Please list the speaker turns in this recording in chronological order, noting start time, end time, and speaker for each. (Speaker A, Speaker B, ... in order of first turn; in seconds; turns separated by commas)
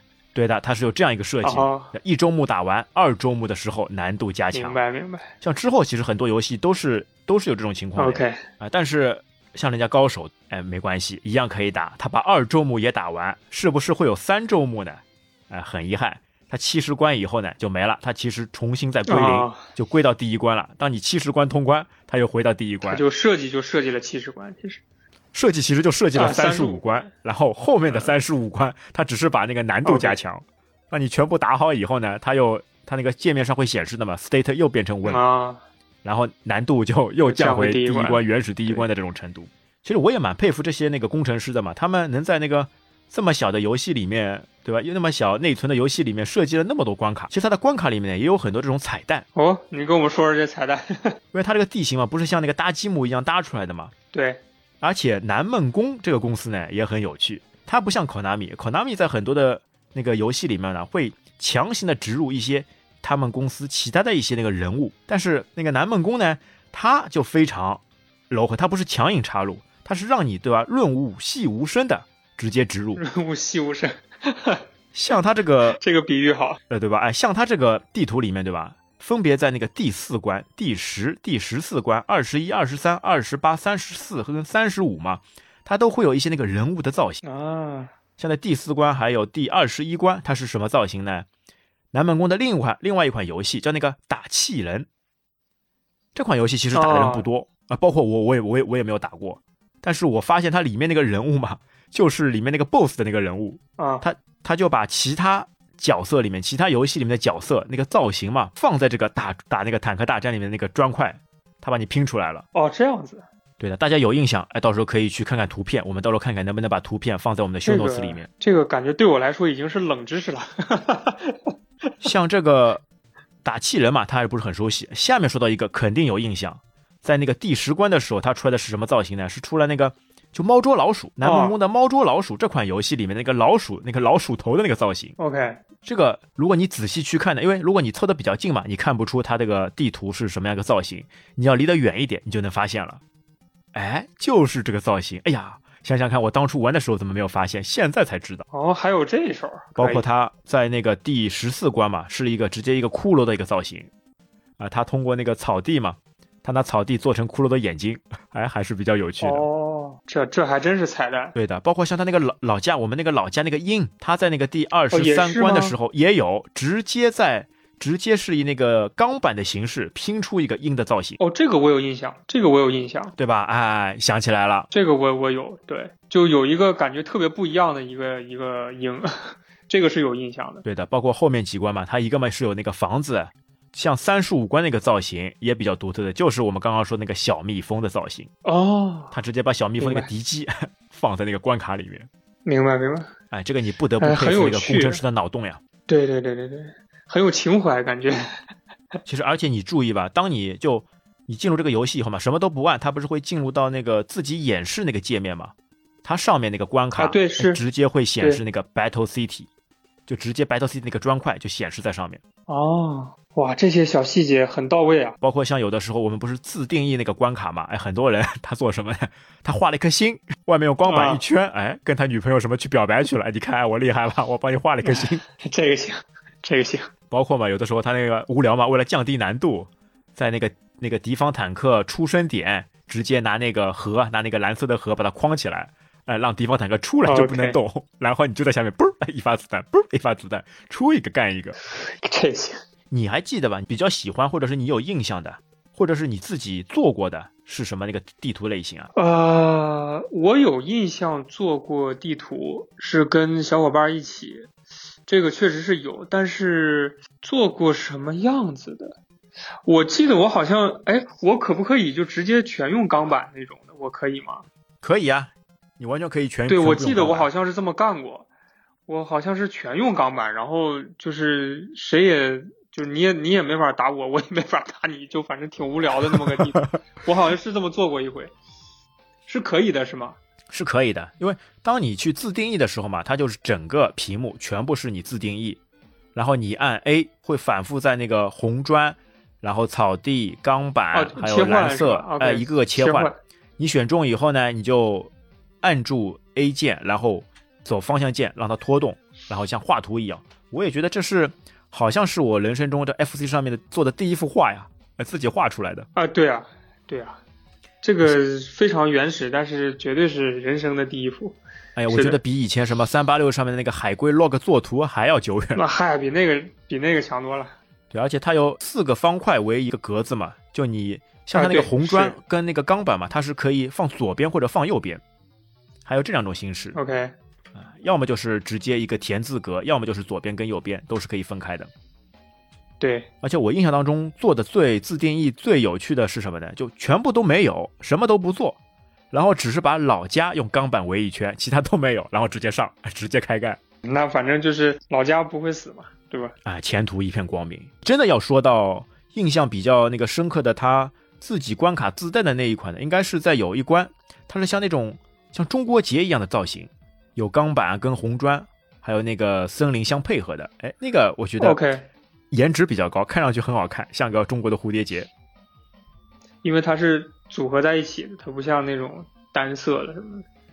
Speaker A: 0.3-4.8, Speaker B: 1.4-1.9, Speaker B: 4.5-5.3, Speaker A: 5.4-23.0, Speaker B: 8.0-8.4, Speaker B: 19.1-19.7, Speaker B: 22.9-24.8, Speaker A: 25.3-35.2, Speaker B: 26.1-27.1, Speaker B: 29.9-30.2, Speaker B: 35.0-35.6, Speaker A: 36.0-49.2, Speaker B: 37.2-38.8, Speaker B: 49.4-51.2, Speaker A: 51.3-53.9, Speaker B: 54.1-54.4, Speaker A: 54.8-73.0, Speaker B: 73.0-74.6, Speaker A: 74.9-75.8, Speaker B: 75.7-76.6, Speaker A: 76.7-87.2, Speaker B: 87.2-87.9, Speaker A: 88.2-91.3, Speaker A: 91.9-94.9, Speaker A: 96.2-112.5, Speaker B: 96.7-97.2, Speaker B: 103.8-104.0, Speaker B: 112.5-113.2, Speaker A: 113.6-118.3, Speaker B: 117.7-121.5, Speaker A: 122.0-122.8, Speaker A: 123.4-135.2, Speaker B: 131.2-131.6, Speaker B: 135.2-135.6, Speaker A: 135.8-143.0, Speaker A: 143.7-148.4, Speaker B: 148.5-150.1, Speaker A: 149.8-153.9, Speaker A: 154.6-159.5, Speaker B: 159.2-161.3, Speaker A: 161.3-171.2, Speaker B: 164.9-165.8, Speaker B: 171.2-173.2, Speaker A: 173.2-174.7, Speaker B: 174.7-180.6, Speaker A: 180.7-188.3, Speaker B: 188.4-189.2, Speaker A: 189.1-192.1, Speaker B: 189.8-190.1, Speaker B: 192.4-193.1, Speaker A: 193.3-195.6, Speaker B: 194.0-195.0, Speaker B: 195.9-198.2, Speaker A: 199.1-209.5, Speaker B: 207.0-207.6, Speaker A: 210.1-212.2, Speaker B: 212.5-215.2, Speaker A: 215.2-225.2, Speaker B: 220.9-221.2, Speaker B: 224.8-226.9, Speaker A: 227.1-241.6, Speaker B: 237.1-237.6, Speaker B: 241.7-242.6, Speaker A: 242.9-248.9, Speaker B: 248.9-254.5, Speaker B: 255.1-259.0, Speaker B: 259.7-264.4, Speaker A: 264.8-267.3, Speaker B: 266.5-268.3, Speaker B: 268.9-278.3, Speaker A: 276.0-276.4, Speaker B: 279.3-280.2, Speaker A: 280.5-285.6, Speaker A: 286.1-295.1, Speaker B: 290.9-293.2, Speaker A: 295.6-305.9, Speaker B: 305.9-307.2, Speaker B: 307.8-311.4, Speaker A: 311.8-315.6, Speaker B: 311.9-312.2, Speaker B: 315.6-317.6, Speaker A: 317.9-325.0, Speaker B: 321.3-322.2, Speaker A: 325.9-326.8, Speaker B: 326.7-327.1, Speaker A: 327.6-331.7, Speaker B: 332.8-333.1, Speaker A: 333.2-338.6, Speaker A: 339.1-343.6, Speaker B: 343.8-346.3, Speaker A: 346.4-361.6, Speaker B: 361.4-361.9, Speaker A: 362.3-365.1, Speaker B: 366.4-370.2